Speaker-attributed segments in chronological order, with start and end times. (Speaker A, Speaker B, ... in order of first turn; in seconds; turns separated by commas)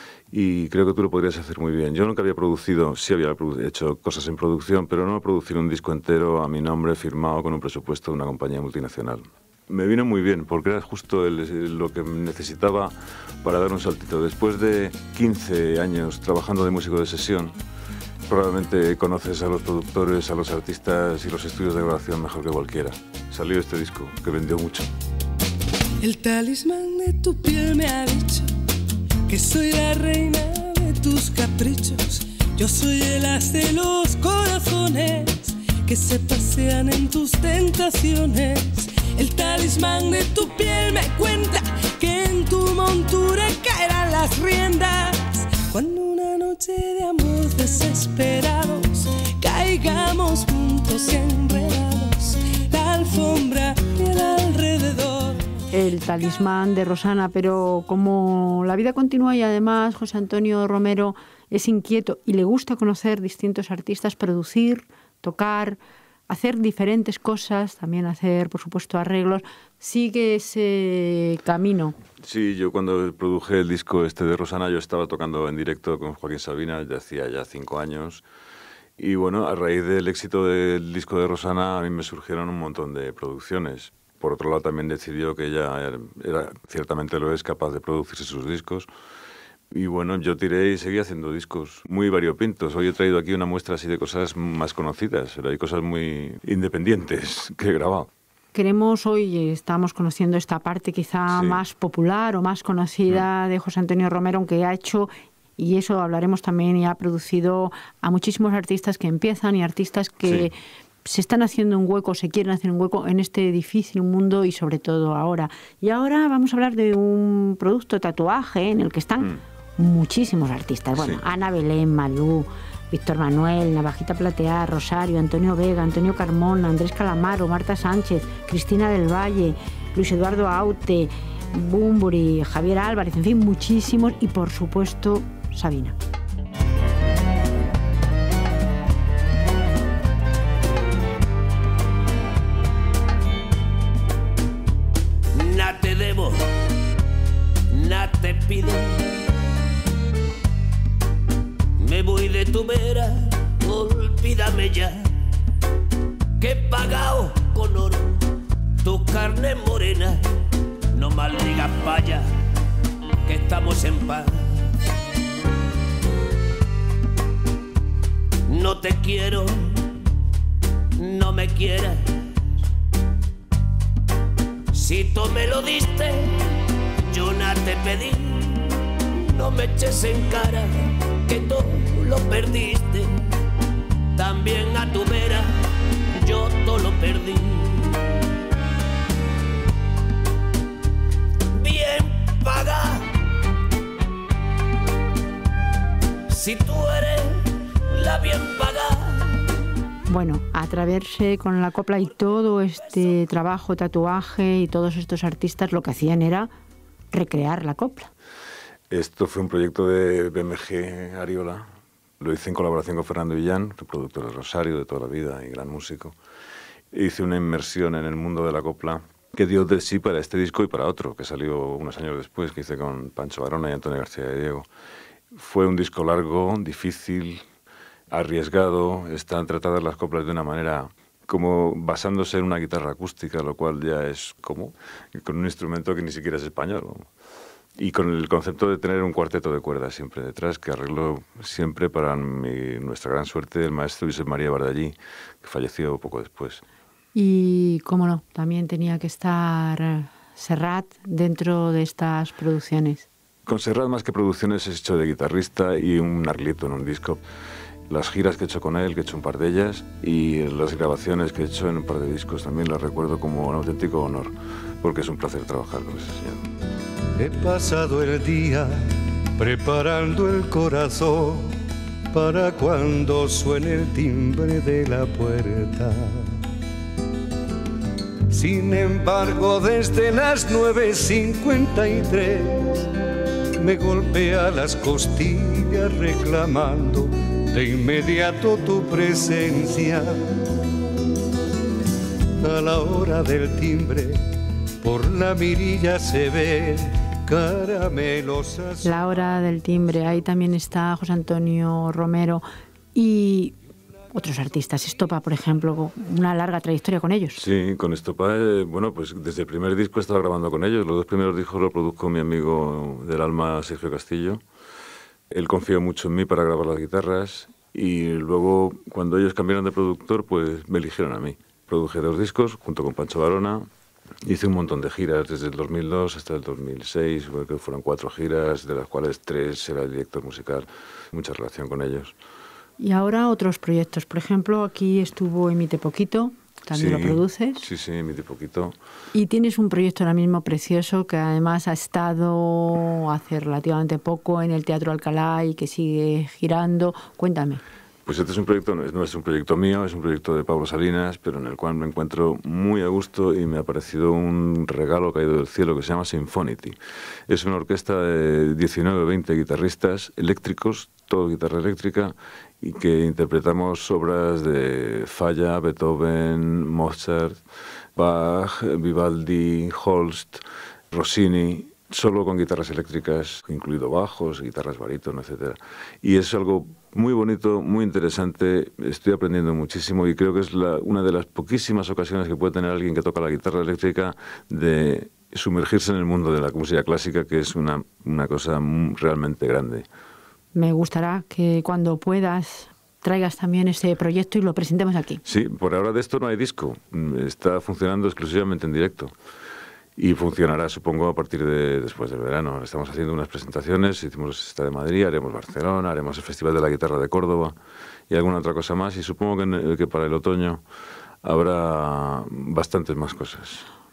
Speaker A: 0.3-17.6, Speaker A: 18.3-24.9, Speaker B: 26.0-28.5, Speaker B: 29.2-55.5, Speaker C: 55.7-71.9, Speaker A: 72.2-78.2, Speaker A: 79.0-88.9, Speaker A: 89.7-98.1, Speaker C: 98.5-135.9, Speaker A: 101.3-101.6, Speaker A: 121.0-121.2, Speaker D: 145.3-146.3, Speaker D: 147.7-148.7, Speaker D: 151.8-154.9, Speaker D: 156.4-157.9, Speaker D: 158.8-160.1, Speaker D: 160.9-162.2, Speaker D: 163.2-164.2, Speaker D: 168.5-169.4, Speaker D: 171.0-171.9, Speaker D: 174.7-176.2, Speaker D: 177.1-178.2, Speaker D: 179.1-180.7, Speaker D: 181.2-183.1, Speaker D: 184.2-185.4, Speaker D: 186.2-187.4, Speaker D: 191.5-193.0, Speaker D: 196.3-197.2, Speaker D: 197.9-199.0, Speaker C: 200.1-206.5, Speaker C: 207.1-208.1, Speaker A: 208.9-211.6, Speaker A: 212.2-216.1, Speaker A: 216.9-224.7, Speaker A: 225.3-227.4, Speaker A: 228.1-237.1, Speaker A: 237.8-246.6, Speaker C: 247.1-253.1, Speaker A: 253.4-257.2, Speaker A: 257.9-266.4, Speaker E: 267.2-271.6, Speaker E: 272.1-276.4, Speaker E: 278.3-282.9, Speaker E: 283.6-290.2, Speaker E: 292.4-294.2, Speaker E: 294.8-299.0, Speaker C: 298.8-302.4, Speaker C: 302.9-303.6, Speaker C: 304.1-307.4, Speaker A: 307.3-314.4, Speaker A: 315.3-323.6, Speaker A: 324.2-332.1, Speaker C: 332.8-337.6, Speaker A: 336.7-338.7, Speaker C: 339.1-347.6, Speaker A: 348.1-356.8, Speaker A: 357.3-367.4, Speaker A: 367.9-389.8, Speaker C: 390.5-395.2, Speaker A: 395.2-399.1, Speaker A: 400.0-407.5, Speaker A: 408.1-410.6, Speaker A: 411.2-413.6